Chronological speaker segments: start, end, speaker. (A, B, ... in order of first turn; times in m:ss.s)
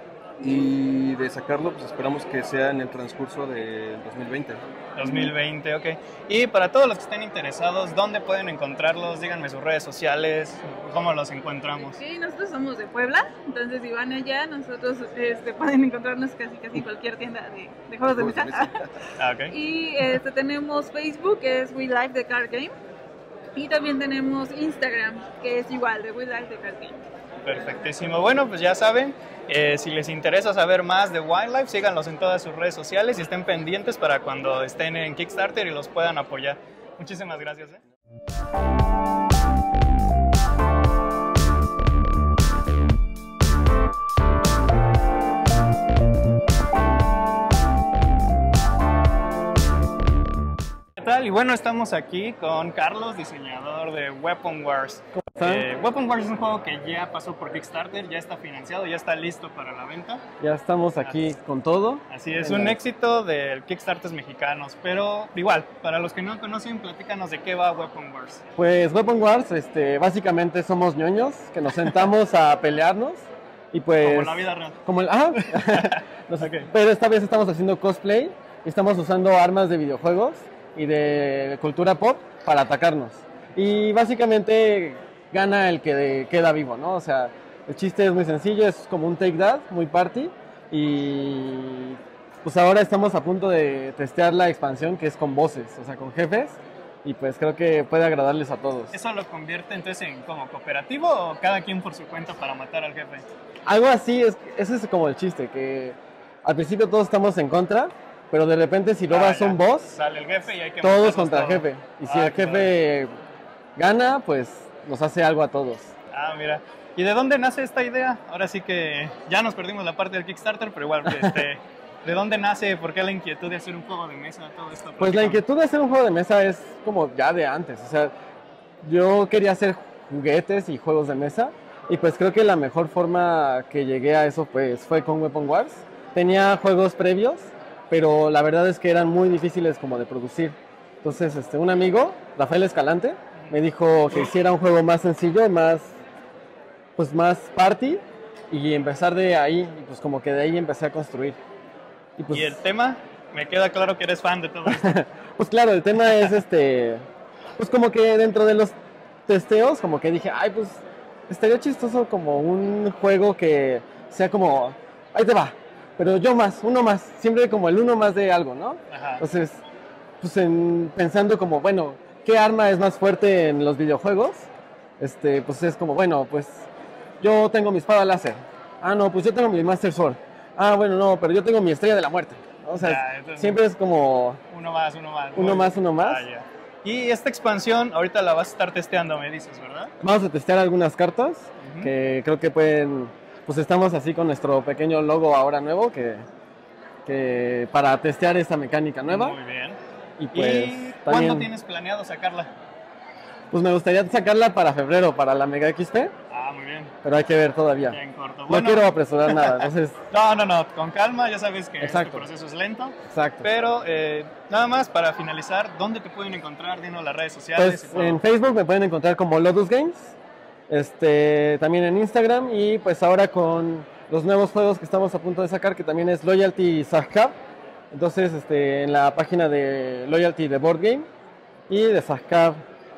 0:00.4-0:04.6 A
0:04.9-0:12.0 B
0:05.0-0:05.3 C
0:11.8-0:18.7 C
0:18.1-0:18.9 A
0:19.2-0:19.5 B
0:19.5-0:22.8 C
0:23.5-0:27.0 C
0:27.4-0:37.8 B
0:51.0-1:00.2 B
0:55.1-0:55.7 D
1:00.4-1:02.8 D
1:02.1-1:08.4 B
1:08.6-1:38.9 D
1:14.0-1:14.8 B
1:15.4-1:16.7 B
1:38.9-1:43.2 B
1:43.6-1:49.9 D
1:49.1-1:52.8 B
1:50.8-1:53.1 D
1:53.8-1:55.9 D
1:56.1-2:05.4 B
2:05.0-2:08.1 D
2:08.8-2:26.0 D
2:27.0-2:31.4 D
2:32.2-2:32.6 D
2:32.3-2:35.0 B
2:34.7-2:37.0 D
2:37.6-2:38.7 D
2:39.3-2:49.6 D
2:48.9-2:49.2 B
2:50.2-2:54.5 D
2:55.0-2:56.6 D
2:57.2-3:04.4 D
3:02.8-3:03.6 B
3:04.5-3:09.9 B
3:05.3-3:06.2 D
3:10.0-3:16.2 D
3:11.6-3:11.9 B
3:17.1-3:19.4 D
3:19.0-3:19.8 B
3:20.2-3:21.5 D
3:20.3-3:22.5 B
3:23.5-3:26.1 D
3:26.3-3:26.9 B
3:27.0-3:29.9 D
3:27.9-3:38.2 B
3:31.8-3:32.3 D
3:33.1-3:33.5 D
3:37.6-3:40.1 D
3:40.7-3:47.3 D
3:47.9-3:51.1 D
3:51.7-3:52.6 D